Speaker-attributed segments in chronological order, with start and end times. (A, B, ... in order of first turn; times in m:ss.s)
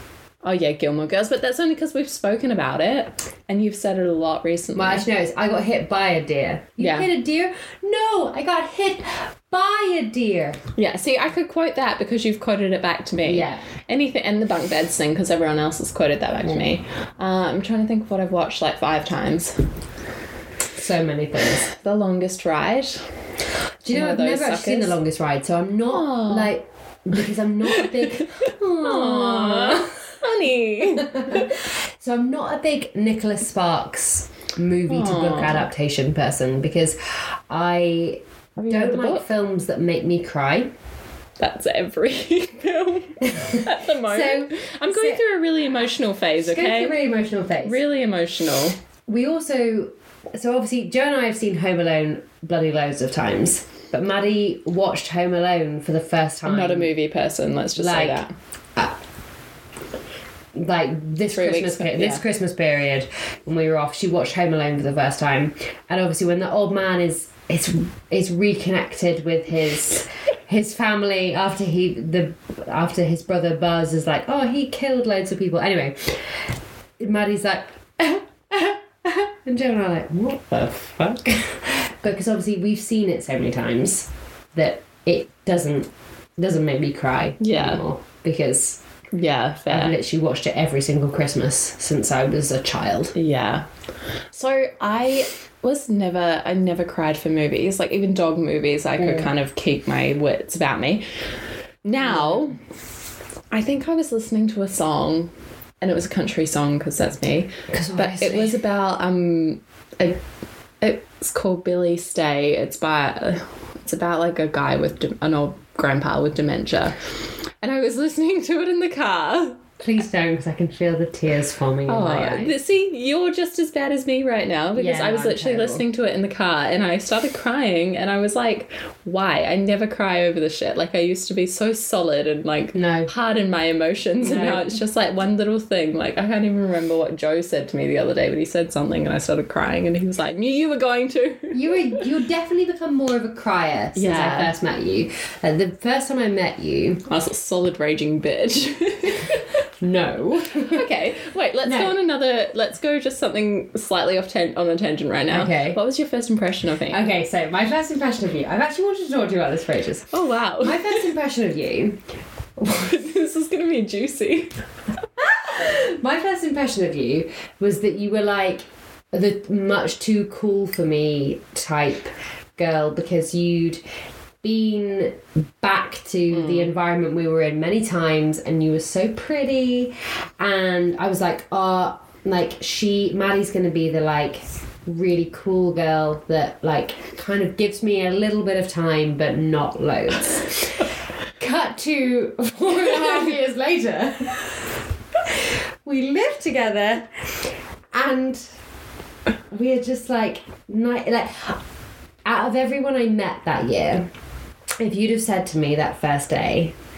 0:00.4-0:05.1 A
0:04.7-0:10.6 B
0:06.8-0:07.1 A
0:10.8-0:19.7 A
0:13.3-0:13.6 B
0:20.8-0:21.7 B
0:21.6-0:23.1 A
0:23.8-0:30.0 B
0:23.9-0:25.0 A
0:25.9-0:26.5 A
0:27.8-0:31.5 A
0:30.9-0:40.7 B
0:34.9-0:35.7 A
0:38.6-0:39.3 A
0:41.4-0:47.0 A
0:43.2-0:45.2 B
0:46.4-0:47.8 B
0:47.6-0:48.8 A
0:49.1-0:56.9 B
0:56.4-0:58.3 A
0:57.8-0:58.2 B
1:00.6-1:16.2 B
1:01.3-1:02.2 A
1:17.0-1:28.8 B
1:27.4-1:27.8 A
1:29.1-1:30.0 A
1:29.7-1:33.2 B
1:33.1-1:33.7 A
1:34.3-1:41.0 A
1:39.0-1:39.3 B
1:41.8-1:42.6 A
1:42.0-1:42.6 B
1:43.5-1:50.2 A
1:47.7-1:48.6 B
1:50.8-1:59.6 A
1:59.8-2:02.5 B
2:01.9-2:22.0 A
2:04.8-2:05.8 B
2:12.7-2:13.1 B
2:14.2-2:14.8 B
2:21.5-2:27.0 B
2:24.0-2:24.5 A
2:27.1-2:29.6 A
2:29.8-2:30.8 B
2:30.6-2:37.0 A
2:31.6-2:31.9 B
2:35.3-2:35.8 B
2:36.9-2:42.0 B
2:40.1-2:41.1 A
2:42.6-2:42.9 B
2:42.7-2:44.5 A
2:45.2-2:53.8 B
2:54.4-3:10.9 B
2:56.3-2:56.7 A
3:11.4-3:14.6 B
3:15.3-3:18.5 B
3:19.5-3:21.6 B
3:22.2-3:24.1 B
3:24.8-3:26.8 B